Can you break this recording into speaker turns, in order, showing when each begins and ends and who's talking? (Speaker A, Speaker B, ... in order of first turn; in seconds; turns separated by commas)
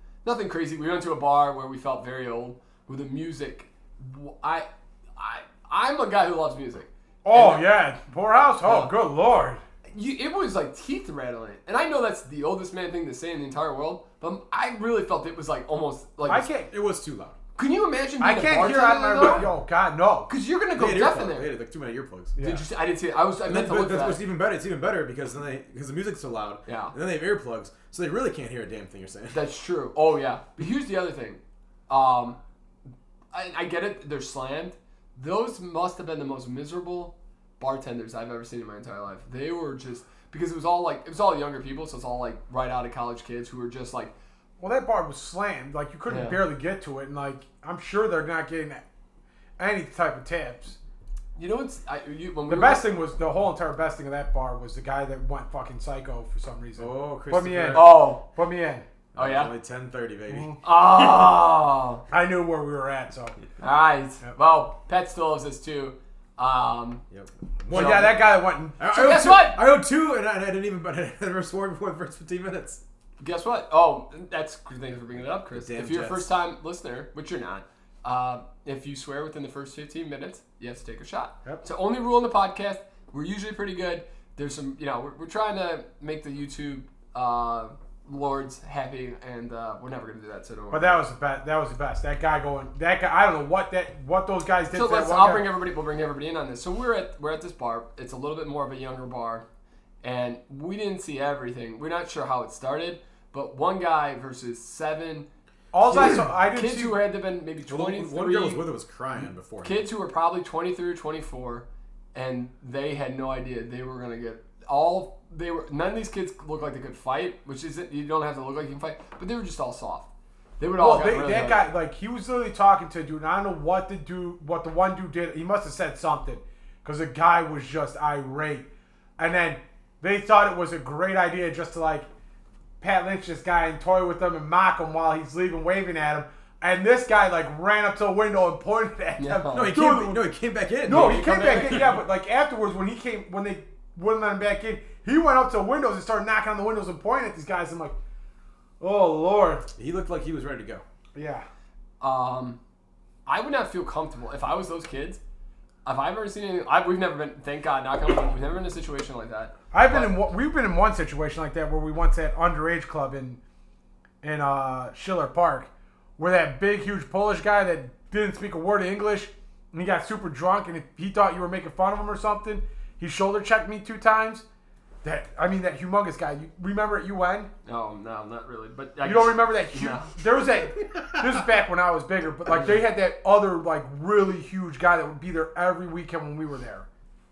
Speaker A: 0.2-7.7, Speaker B: 7.2-9.6, Speaker A: 8.6-8.9, Speaker A: 9.9-16.5, Speaker B: 16.3-16.7, Speaker C: 16.7-17.4, Speaker A: 17.6-19.5, Speaker B: 18.2-20.3, Speaker A: 20.3-21.5, Speaker C: 20.8-22.4, Speaker B: 22.4-22.6, Speaker A: 22.4-24.2, Speaker C: 23.4-29.5, Speaker A: 26.7-26.9, Speaker A: 29.3-32.4, Speaker A: 33.3-44.1, Speaker B: 44.6-48.8, Speaker A: 46.1-46.4, Speaker B: 49.6-50.8, Speaker A: 51.4-52.9, Speaker B: 52.5-58.9, Speaker C: 56.8-58.0, Speaker A: 57.7-58.2, Speaker C: 59.1-60.6, Speaker A: 59.2-59.5, Speaker B: 60.3-60.6, Speaker A: 60.6-62.0, Speaker B: 62.1-63.4, Speaker A: 63.6-67.0, Speaker C: 67.1-72.8, Speaker A: 67.7-68.2, Speaker B: 67.7-68.8, Speaker A: 68.8-69.6, Speaker A: 73.2-91.0, Speaker C: 75.5-76.3, Speaker B: 90.7-95.5, Speaker A: 94.7-99.5, Speaker A: 100.0-105.3, Speaker B: 105.7-107.0, Speaker A: 105.8-108.6, Speaker C: 107.7-109.9, Speaker A: 109.6-120.1, Speaker A: 120.6-121.7, Speaker B: 120.8-132.1, Speaker B: 132.8-140.2, Speaker A: 139.2-139.7, Speaker C: 139.5-141.9, Speaker B: 140.8-148.0, Speaker A: 140.9-142.0, Speaker B: 148.8-149.7, Speaker C: 149.8-150.8, Speaker B: 151.1-151.5, Speaker A: 152.0-152.6, Speaker A: 153.3-155.2, Speaker A: 155.8-160.2, Speaker B: 159.7-163.4, Speaker B: 164.2-174.4, Speaker B: 175.0-177.5, Speaker A: 177.7-180.1, Speaker B: 179.0-186.9